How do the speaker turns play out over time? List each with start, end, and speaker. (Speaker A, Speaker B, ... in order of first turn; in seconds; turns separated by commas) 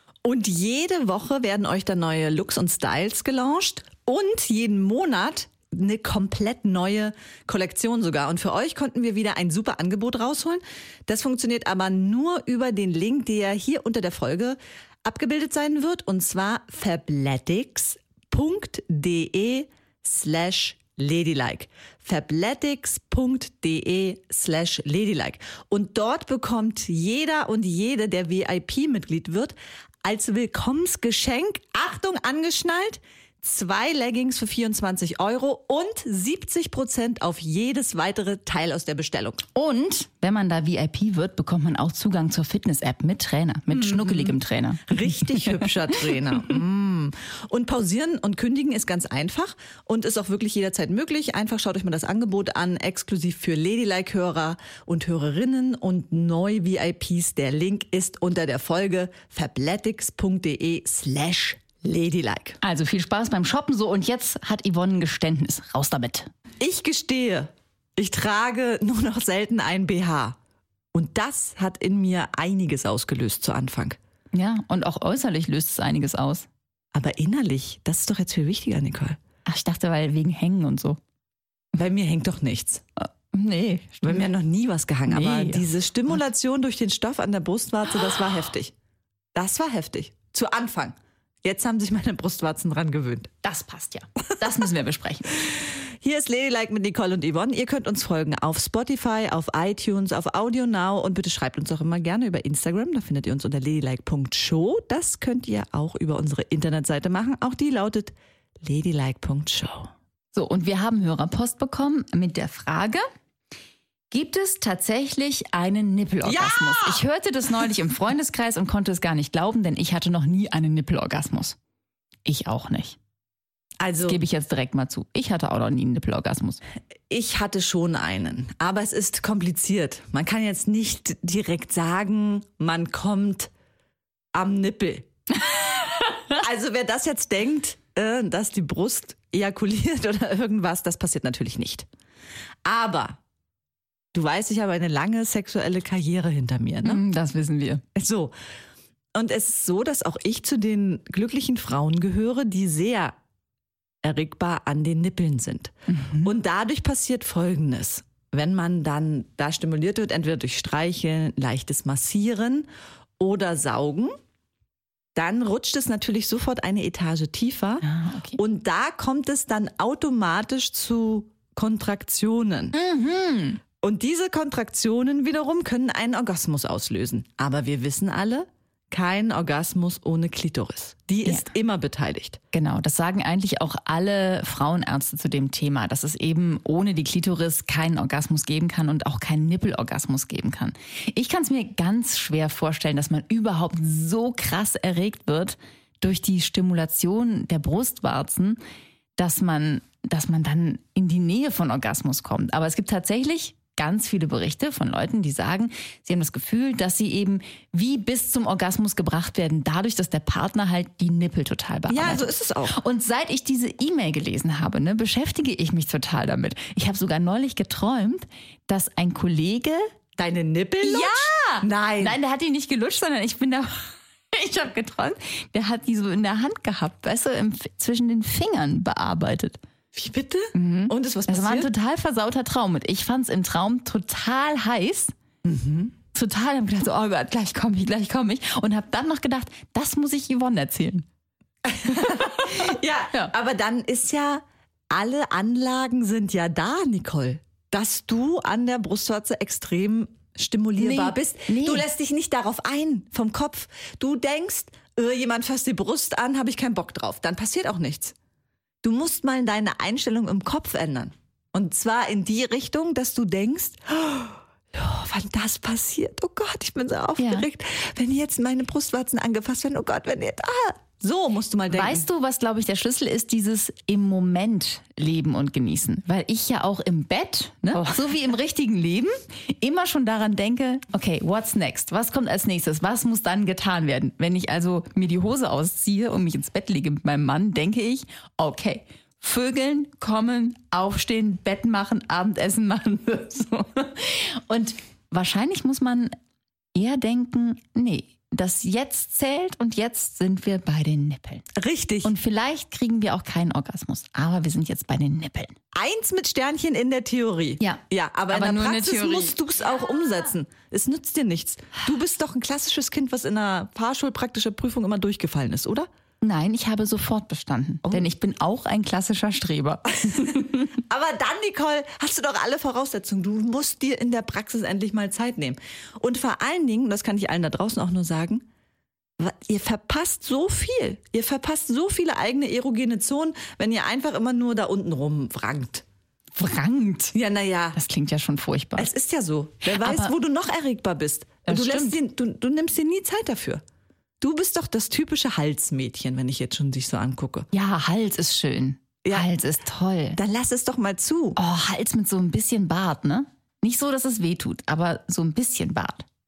Speaker A: 0.2-39.4, Speaker B: 39.5-46.1, Speaker A: 43.7-62.6, Speaker B: 62.6-66.3, Speaker A: 66.6-70.4, Speaker A: 70.9-74.0, Speaker B: 74.3-76.5, Speaker A: 76.9-79.2, Speaker B: 79.5-81.0, Speaker A: 81.8-82.8, Speaker B: 83.0-84.3, Speaker A: 84.0-88.7, Speaker B: 85.1-86.1, Speaker A: 89.3-93.3, Speaker B: 93.4-95.5, Speaker A: 96.0-109.9, Speaker B: 110.3-113.0, Speaker B: 114.1-121.6, Speaker A: 116.2-117.0, Speaker B: 122.3-123.0, Speaker A: 123.8-124.2, Speaker B: 124.0-126.6, Speaker A: 127.1-133.5, Speaker A: 134.3-135.1, Speaker B: 135.8-136.2, Speaker A: 136.4-141.9, Speaker A: 142.7-143.2, Speaker A: 144.1-147.0, Speaker B: 146.8-147.8, Speaker A: 147.9-148.3, Speaker A: 149.2-153.2, Speaker A: 154.0-162.7, Speaker B: 155.9-156.3, Speaker A: 163.2-164.1, Speaker A: 165.2-167.8, Speaker B: 167.8-168.4, Speaker A: 168.4-172.8, Speaker B: 172.7-173.6, Speaker A: 173.8-182.4, Speaker B: 182.5-198.6, Speaker B: 199.2-219.8, Speaker A: 211.9-212.8, Speaker A: 220.2-222.2, Speaker B: 220.8-229.6, Speaker A: 229.9-231.7, Speaker B: 230.6-235.1, Speaker A: 235.4-235.9, Speaker B: 236.1-241.1, Speaker A: 241.7-258.1, Speaker B: 242.0-242.5, Speaker B: 250.8-251.9, Speaker A: 258.8-272.1, Speaker B: 267.2-267.5, Speaker B: 271.7-296.1, Speaker B: 296.8-301.5, Speaker A: 301.6-302.1, Speaker B: 302.0-305.6, Speaker A: 305.7-315.9, Speaker B: 307.6-309.4, Speaker B: 316.2-320.8, Speaker A: 320.1-328.4, Speaker A: 329.2-335.8, Speaker B: 336.4-337.1, Speaker A: 337.1-337.8, Speaker B: 337.7-338.9, Speaker A: 338.8-343.6, Speaker B: 339.7-340.1, Speaker B: 341.4-342.0, Speaker A: 344.2-347.5, Speaker B: 347.5-350.2, Speaker A: 349.0-349.3, Speaker A: 350.2-351.4, Speaker B: 351.4-356.1